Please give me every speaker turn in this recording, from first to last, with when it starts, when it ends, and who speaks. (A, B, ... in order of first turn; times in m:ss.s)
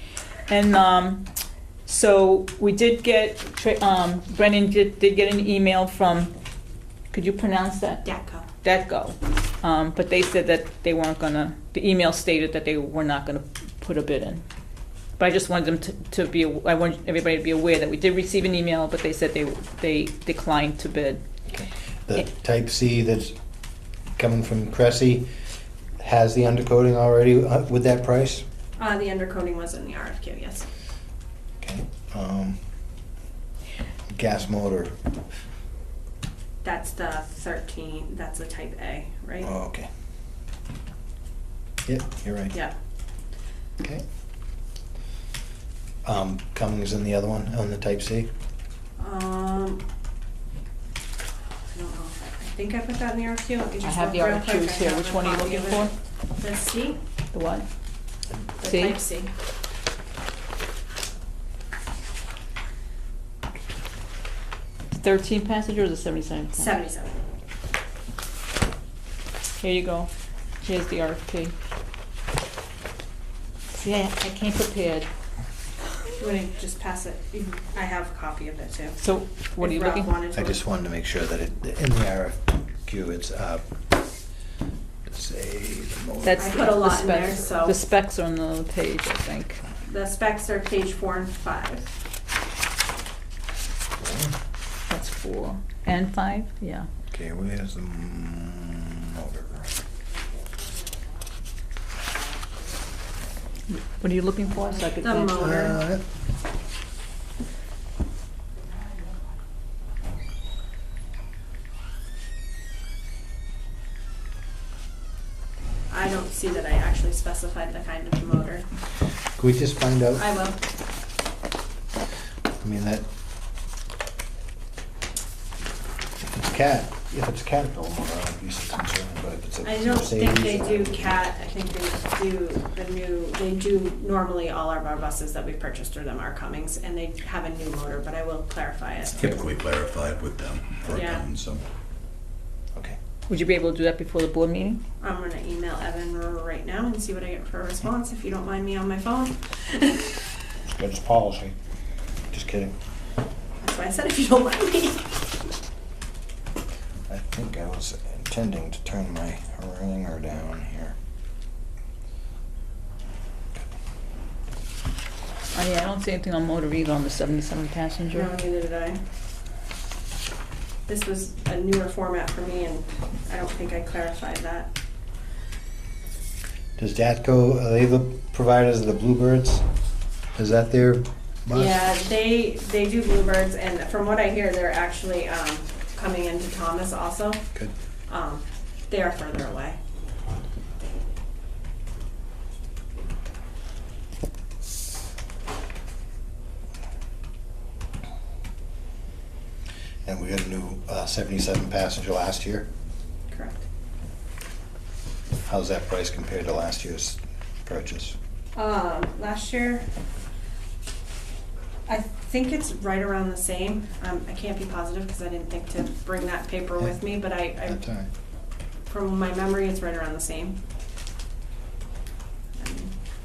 0:00.5-0:01.2 A
0:01.8-0:06.3 A
0:07.1-0:08.0 A
0:08.0-0:08.4 B
0:08.6-0:14.4 A
0:15.2-0:21.2 A
0:21.5-0:23.3 C
0:24.2-0:25.3 C
0:26.0-0:28.4 C
0:28.8-0:30.6 B
0:31.6-0:32.6 C
0:34.1-0:35.0 C
0:36.6-0:39.5 B
0:39.4-0:39.9 C
0:41.8-0:42.5 C
0:46.0-0:48.3 C
0:49.0-0:49.8 B
0:51.7-0:57.0 B
0:53.8-0:55.9 A
0:57.3-0:57.6 A
0:58.6-0:59.3 B
0:58.6-0:59.0 A
1:04.9-1:06.8 A
1:06.6-1:07.2 B
1:09.6-1:10.1 A
1:10.6-1:11.5 A
1:13.7-1:15.1 A
1:16.2-1:19.0 B
1:19.0-1:20.1 A
1:19.6-1:20.6 B
1:20.3-1:23.6 C
1:25.1-1:26.7 C
1:26.2-1:29.6 A
1:26.3-1:27.8 B
1:29.8-1:31.9 B
1:34.0-1:34.3 C
1:34.9-1:36.9 A
1:37.1-1:39.7 C
1:43.9-1:45.8 A
1:45.0-1:45.8 B
1:45.4-1:46.0 C
1:55.9-1:58.6 B
1:59.4-2:00.2 C
2:00.2-2:00.6 B
2:02.6-2:03.1 C
2:06.2-2:11.3 C
2:09.6-2:19.3 B
2:19.2-2:21.6 D
2:20.9-2:21.2 B
2:23.3-2:24.8 A
2:25.0-2:30.3 B
2:30.6-2:31.5 C
2:32.3-2:32.7 C
2:33.6-2:35.1 B
2:37.1-2:41.0 C
2:45.5-2:48.3 A
2:48.1-2:49.0 B
2:50.9-2:54.7 B
2:56.8-2:59.6 C
3:00.3-3:01.8 C
3:01.5-3:07.5 B
3:08.1-3:09.8 B
3:20.0-3:22.7 C
3:23.3-3:23.6 B
3:25.4-3:28.2 C
3:28.5-3:29.8 B
3:31.9-3:37.8 B
3:37.6-3:38.1 C
3:38.9-3:40.6 B
3:42.6-3:42.9 B